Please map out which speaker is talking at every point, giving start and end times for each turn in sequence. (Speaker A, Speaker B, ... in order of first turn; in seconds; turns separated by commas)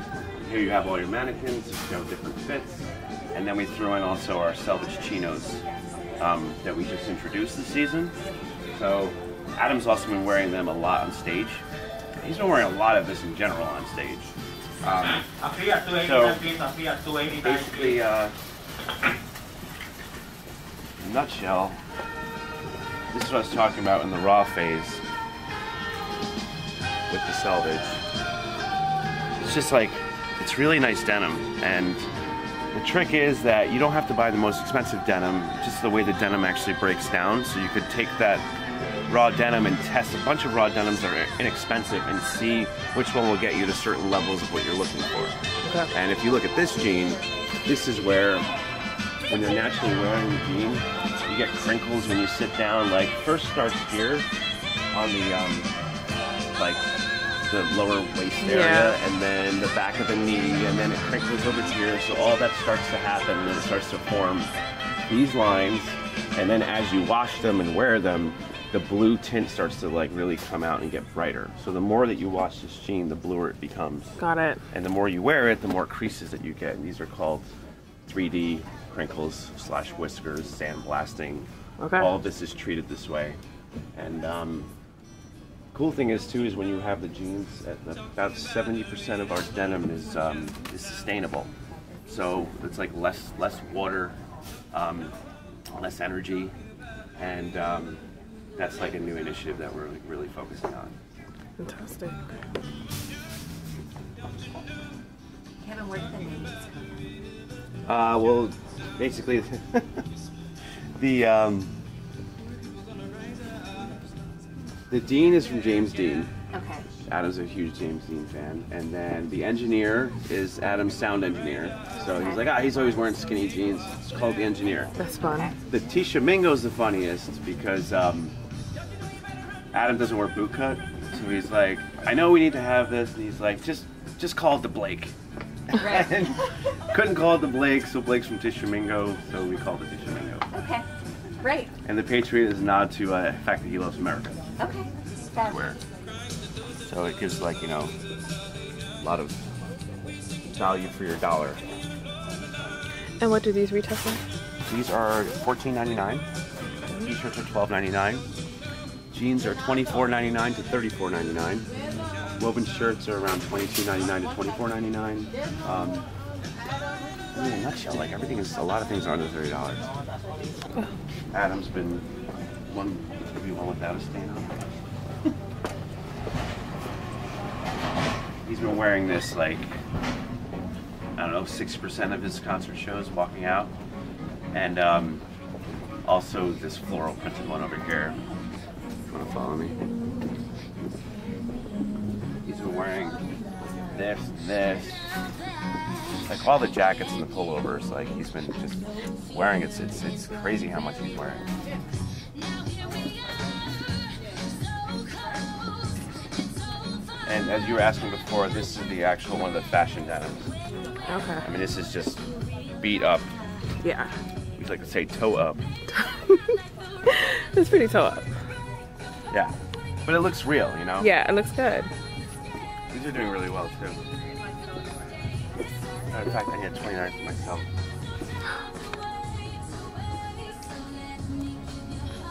Speaker A: 0.4-5.6, Speaker A: 6.2-8.2, Speaker A: 8.7-11.6, Speaker A: 12.2-15.3, Speaker B: 15.4-17.5, Speaker A: 15.9-16.4, Speaker A: 17.3-18.3, Speaker A: 21.0-21.8, Speaker A: 23.1-25.0, Speaker A: 27.1-28.0, Speaker A: 29.4-32.1, Speaker A: 32.7-38.5, Speaker A: 39.1-45.4, Speaker A: 45.9-48.5, Speaker A: 49.3-54.3, Speaker A: 54.9-55.7, Speaker A: 56.5-56.8, Speaker A: 57.5-64.5, Speaker C: 58.4-59.0, Speaker A: 65.1-74.2, Speaker C: 74.2-74.6, Speaker A: 74.7-77.5, Speaker A: 78.1-83.4, Speaker C: 81.8-82.1, Speaker A: 84.0-84.7, Speaker A: 85.7-91.5, Speaker A: 92.1-94.2, Speaker A: 94.7-95.2, Speaker A: 95.7-96.5, Speaker A: 97.2-98.0, Speaker A: 98.6-100.9, Speaker C: 101.6-102.2, Speaker D: 105.6-107.0, Speaker A: 107.9-110.0, Speaker A: 111.0-111.7, Speaker A: 114.9-116.3, Speaker D: 116.5-116.9, Speaker A: 117.1-124.9, Speaker D: 122.1-122.4, Speaker C: 125.0-125.5, Speaker D: 125.2-125.6, Speaker A: 125.7-128.3, Speaker A: 129.7-135.1, Speaker A: 135.8-140.5, Speaker D: 135.8-136.5, Speaker D: 140.5-140.9, Speaker D: 141.4-141.7, Speaker A: 141.8-144.4, Speaker D: 144.6-145.6, Speaker A: 145.4-145.8, Speaker A: 146.8-147.9, Speaker A: 149.0-149.4, Speaker A: 150.5-151.6, Speaker C: 153.2-154.2, Speaker A: 154.7-156.3, Speaker A: 157.0-158.2, Speaker A: 159.1-161.7, Speaker A: 162.4-166.1, Speaker A: 167.3-169.9, Speaker A: 171.3-172.1, Speaker A: 172.7-174.6, Speaker A: 178.4-179.8, Speaker A: 181.2-183.7, Speaker A: 184.5-185.2, Speaker A: 186.1-188.2, Speaker A: 189.1-189.8, Speaker A: 192.4-193.2, Speaker A: 193.9-195.0, Speaker A: 196.2-201.5, Speaker A: 207.2-210.5, Speaker C: 211.1-211.4, Speaker A: 211.4-212.2, Speaker A: 212.8-213.3, Speaker C: 213.8-214.1, Speaker A: 214.6-215.7, Speaker C: 217.1-218.3, Speaker A: 220.1-221.1, Speaker C: 221.0-221.9, Speaker A: 222.9-224.0, Speaker A: 226.1-227.7